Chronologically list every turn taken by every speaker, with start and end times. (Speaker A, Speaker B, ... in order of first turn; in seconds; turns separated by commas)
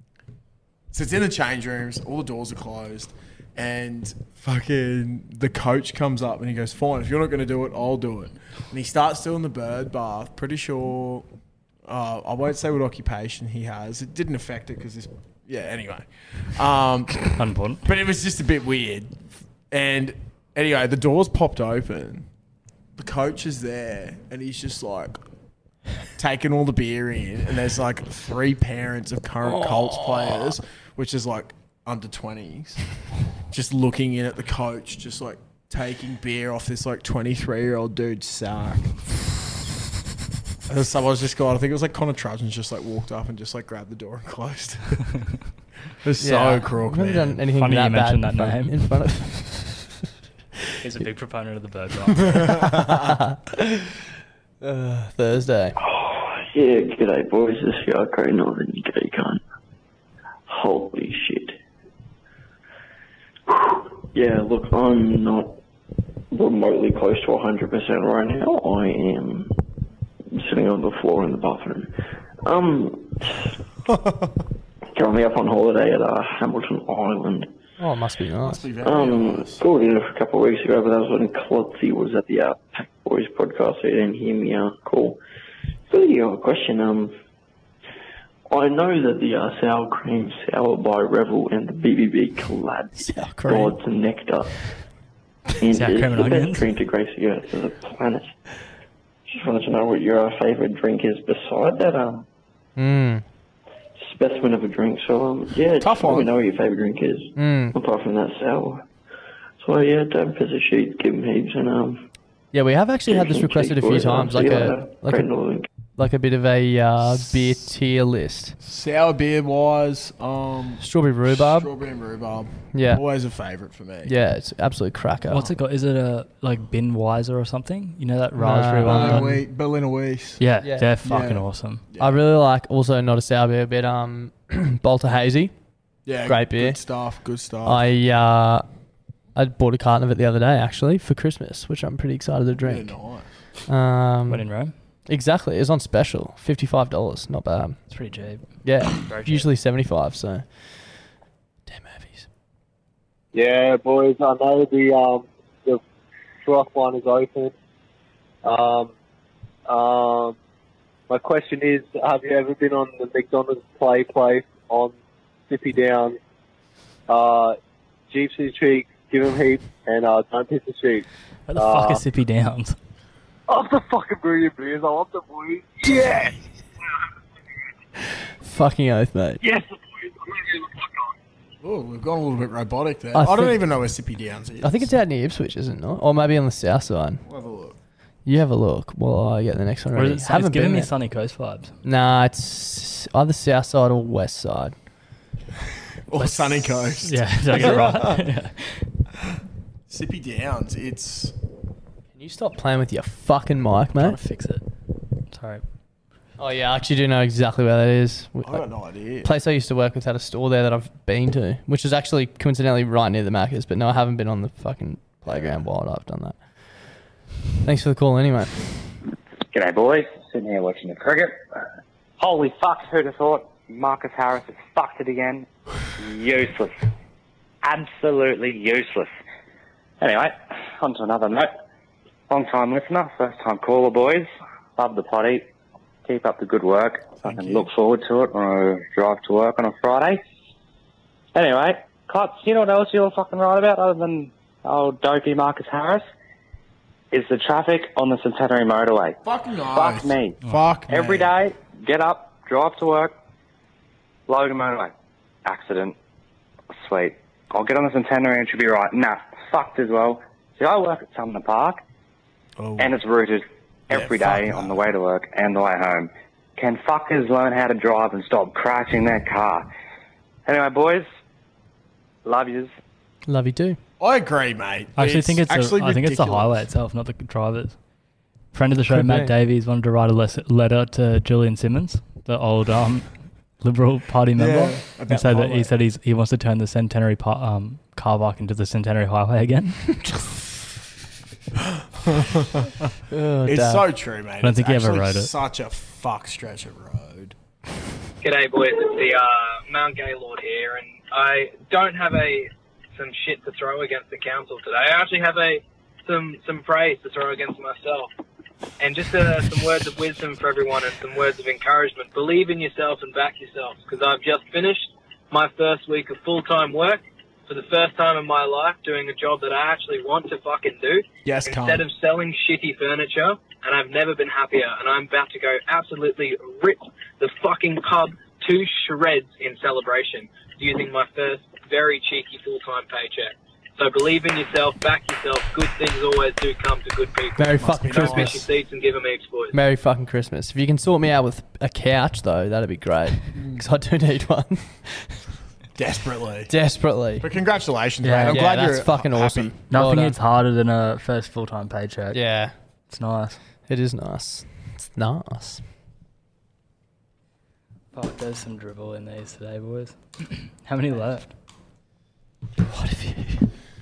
Speaker A: 0.9-11.3, Speaker A: 11.9-17.2, Speaker B: 17.3-17.8, Speaker A: 17.9-22.3, Speaker A: 23.0-25.2, Speaker A: 26.2-32.8, Speaker C: 29.6-30.3, Speaker A: 33.5-38.9, Speaker A: 40.7-45.0, Speaker A: 46.0-47.4, Speaker C: 46.2-49.8, Speaker B: 47.6-48.8, Speaker B: 50.8-52.6, Speaker A: 52.6-52.9, Speaker C: 54.6-55.8, Speaker D: 55.8-59.4, Speaker D: 60.5-61.6, Speaker D: 63.5-65.6, Speaker D: 66.3-69.6, Speaker D: 70.3-73.5, Speaker D: 74.9-77.5, Speaker C: 77.8-78.7, Speaker A: 78.4-79.7, Speaker D: 78.8-85.2, Speaker D: 85.9-87.2, Speaker D: 88.5-94.6, Speaker C: 93.0-93.8, Speaker D: 95.6-98.3, Speaker B: 95.7-96.7, Speaker D: 99.3-102.3, Speaker C: 102.8-103.2, Speaker D: 104.0-108.8, Speaker A: 105.8-106.3, Speaker C: 107.4-107.8, Speaker D: 109.6-112.1, Speaker C: 112.5-115.3, Speaker D: 113.1-115.7, Speaker C: 116.0-118.5, Speaker A: 118.6-124.2, Speaker C: 120.8-121.7, Speaker C: 124.1-125.5, Speaker B: 125.3-129.3, Speaker C: 128.4-129.4, Speaker A: 128.8-130.4, Speaker B: 130.4-131.8, Speaker A: 131.0-132.2, Speaker C: 132.0-135.5, Speaker A: 136.1-137.8, Speaker C: 136.3-136.8, Speaker C: 137.7-138.6, Speaker C: 139.4-142.9, Speaker A: 142.6-143.2, Speaker C: 143.7-144.4, Speaker B: 144.3-144.7, Speaker C: 145.1-147.8, Speaker B: 147.9-149.5, Speaker C: 148.6-150.8, Speaker C: 151.7-152.3, Speaker E: 153.3-155.8, Speaker E: 156.4-157.5, Speaker E: 158.4-158.9, Speaker E: 159.7-160.4, Speaker E: 161.1-164.9, Speaker E: 165.5-166.2, Speaker E: 167.1-167.6, Speaker E: 168.1-172.0, Speaker B: 171.5-172.8, Speaker E: 173.5-176.3, Speaker C: 178.4-179.4, Speaker A: 181.6-184.9, Speaker C: 183.2-183.6, Speaker C: 184.6-187.2, Speaker A: 187.3-187.8, Speaker C: 188.3-190.9, Speaker B: 189.9-191.7, Speaker C: 191.8-194.7, Speaker A: 196.1-198.1, Speaker B: 196.2-198.9, Speaker A: 199.9-201.3, Speaker C: 202.2-204.2, Speaker B: 203.9-204.6, Speaker B: 205.3-205.6, Speaker C: 206.4-208.7, Speaker A: 208.4-209.3, Speaker C: 209.2-216.4, Speaker A: 215.3-215.7, Speaker C: 217.6-218.8, Speaker F: 219.5-221.4, Speaker F: 222.2-225.5, Speaker F: 226.0-226.8, Speaker F: 227.6-229.1, Speaker F: 230.0-231.5, Speaker F: 232.3-235.5, Speaker F: 236.1-240.2, Speaker A: 237.2-237.7, Speaker F: 241.3-246.1, Speaker F: 247.1-249.2, Speaker A: 249.2-251.3, Speaker F: 249.7-253.1, Speaker F: 254.3-254.9, Speaker F: 255.4-255.9, Speaker F: 256.8-261.8, Speaker A: 262.6-262.9, Speaker F: 262.8-269.7, Speaker A: 263.9-264.9, Speaker F: 270.5-271.1, Speaker F: 272.2-272.7, Speaker C: 273.3-273.8, Speaker A: 274.0-276.7, Speaker B: 275.0-277.8, Speaker B: 278.5-290.3, Speaker C: 278.9-279.3, Speaker A: 284.4-285.7, Speaker A: 292.0-292.7, Speaker C: 293.3-293.8, Speaker A: 293.4-297.4, Speaker B: 294.4-295.3, Speaker G: 298.2-308.1, Speaker G: 308.8-339.6, Speaker A: 321.2-321.9, Speaker C: 337.4-338.5, Speaker A: 337.6-338.5, Speaker C: 339.5-345.1, Speaker A: 343.4-343.6, Speaker A: 345.8-346.5, Speaker C: 346.5-347.3, Speaker A: 347.2-349.5, Speaker B: 348.0-348.5, Speaker C: 348.3-350.2, Speaker B: 349.7-352.2, Speaker C: 352.1-352.5, Speaker B: 352.9-353.4, Speaker C: 353.7-355.6, Speaker B: 357.9-361.3, Speaker C: 362.7-363.5